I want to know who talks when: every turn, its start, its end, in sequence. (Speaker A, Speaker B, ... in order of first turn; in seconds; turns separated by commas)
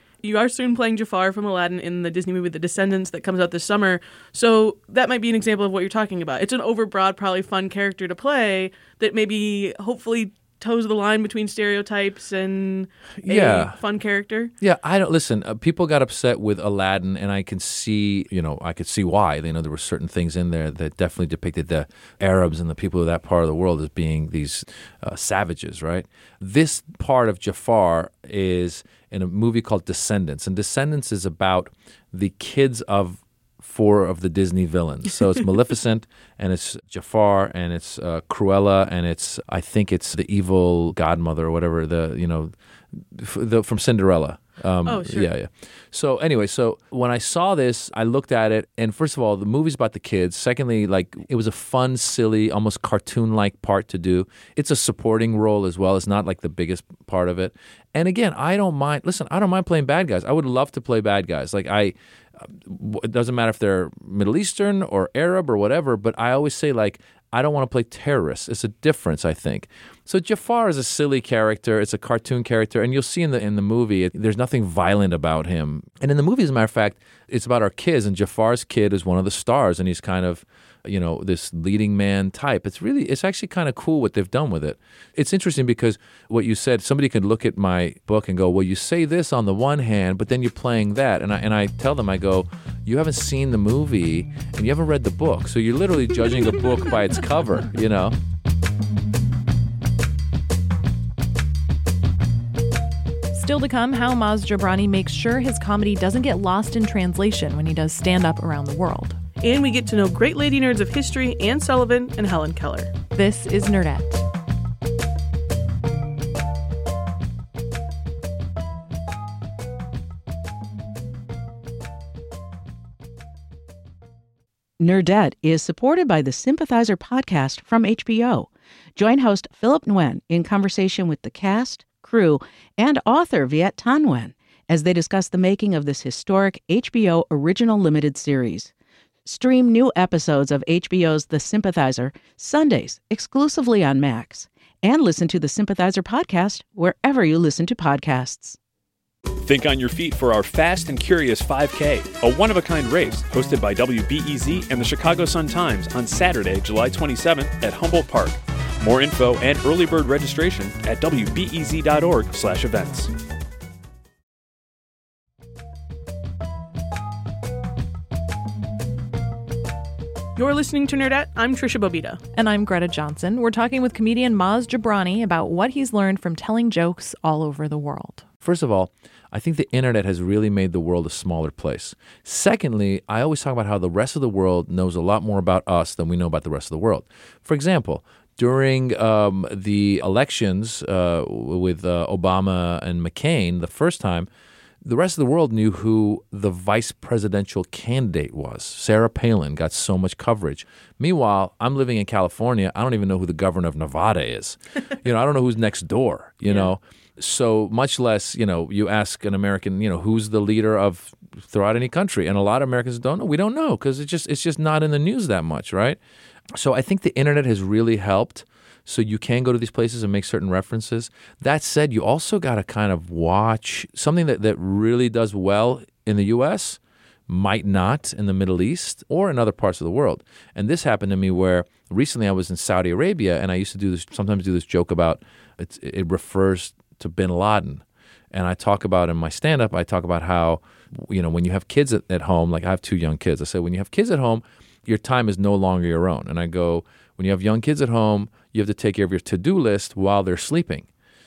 Speaker A: 0.2-14.5, Speaker B: 13.2-13.8, Speaker B: 14.6-98.2, Speaker A: 44.8-45.3, Speaker C: 103.3-109.2, Speaker A: 109.4-112.9, Speaker C: 113.1-114.2, Speaker D: 124.8-138.7, Speaker D: 139.2-148.6, Speaker E: 149.4-163.1, Speaker A: 170.3-172.2, Speaker C: 172.3-178.2, Speaker B: 178.4-194.3, Speaker B: 194.8-216.0, Speaker B: 216.5-250.9